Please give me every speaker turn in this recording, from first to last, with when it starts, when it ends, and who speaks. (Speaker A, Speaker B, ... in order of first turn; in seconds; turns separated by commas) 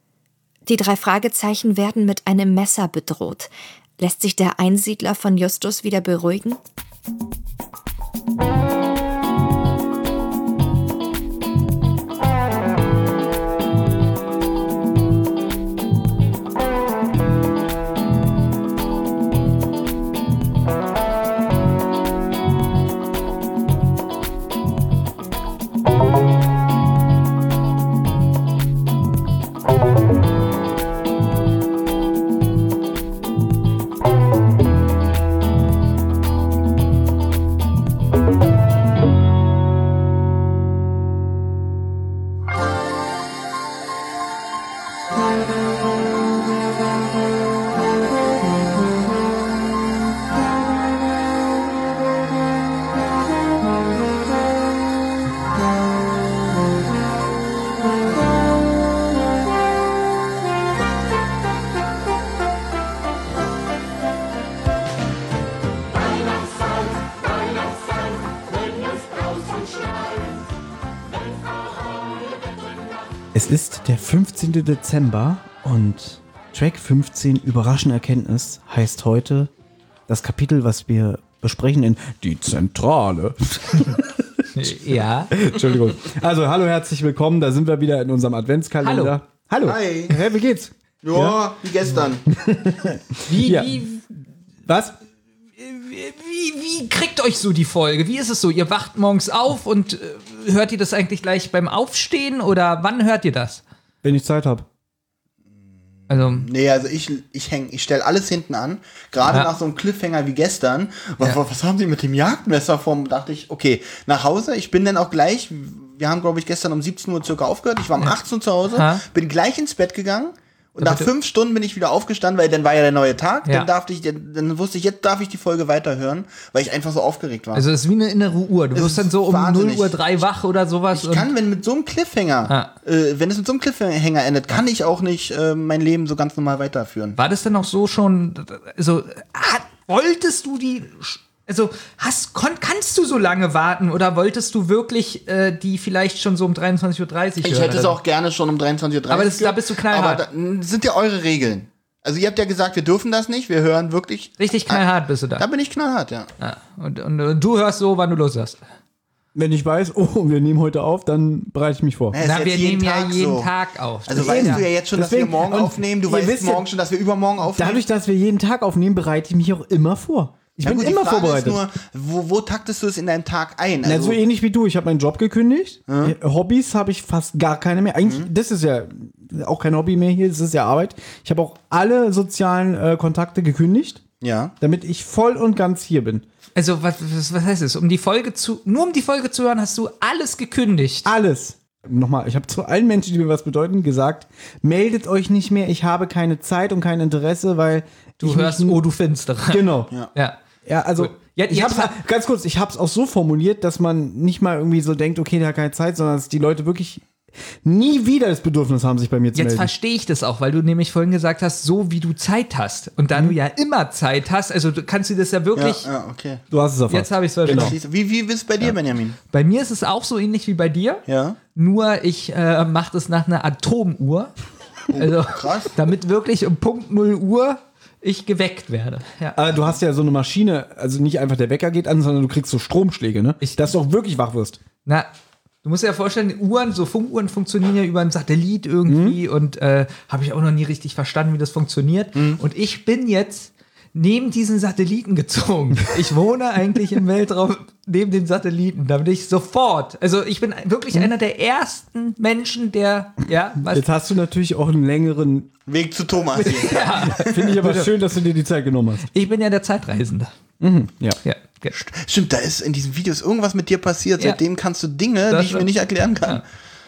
Speaker A: 0.7-6.6, Speaker B: 73.3-79.5, Speaker B: 80.1-84.7, Speaker C: 84.5-85.4, Speaker B: 85.3-91.4, Speaker C: 88.8-89.2, Speaker D: 89.6-90.2, Speaker D: 91.0-92.2, Speaker B: 92.3-93.8, Speaker C: 93.2-94.0, Speaker B: 94.7-94.9, Speaker C: 95.6-103.6, Speaker B: 104.0-104.7, Speaker D: 106.1-127.7, Speaker C: 106.1-106.5, Speaker C: 109.2-109.5, Speaker C: 118.7-119.0, Speaker C: 120.8-121.1, Speaker C: 123.4-123.7, Speaker C: 127.5-131.3, Speaker D: 128.7-130.1, Speaker D: 130.9-137.2, Speaker C: 132.5-132.7, Speaker C: 137.2-148.0, Speaker D: 147.4-156.3, Speaker C: 149.1-150.3, Speaker C: 154.4-155.5, Speaker C: 156.4-158.6, Speaker B: 159.3-162.2, Speaker D: 162.1-163.5, Speaker C: 162.2-164.7, Speaker D: 164.1-167.8, Speaker B: 164.1-166.7, Speaker B: 167.5-171.6, Speaker D: 170.6-174.2, Speaker B: 173.8-184.0, Speaker D: 175.9-176.2, Speaker D: 178.0-178.3, Speaker D: 184.2-184.5, Speaker B: 184.6-186.2, Speaker C: 186.5-191.1, Speaker B: 191.0-198.8, Speaker C: 198.2-200.4, Speaker B: 199.5-199.9, Speaker B: 200.7-207.0, Speaker C: 200.9-201.9, Speaker B: 207.6-209.7, Speaker C: 209.3-215.9, Speaker B: 213.1-213.4, Speaker D: 215.5-216.4, Speaker B: 216.5-217.7, Speaker C: 216.9-217.8, Speaker D: 217.5-219.2, Speaker C: 219.3-221.0, Speaker D: 221.1-221.4, Speaker C: 221.5-224.3, Speaker D: 224.9-225.8, Speaker C: 224.9-229.8, Speaker B: 229.3-234.6, Speaker C: 233.4-233.7, Speaker C: 235.6-253.9, Speaker B: 238.8-239.2, Speaker D: 242.1-242.4, Speaker B: 253.6-255.5, Speaker D: 255.7-256.9, Speaker C: 256.3-257.9, Speaker B: 256.9-259.1, Speaker C: 259.0-260.3, Speaker B: 260.6-261.2, Speaker C: 261.2-261.7, Speaker D: 261.7-266.4, Speaker C: 265.3-265.7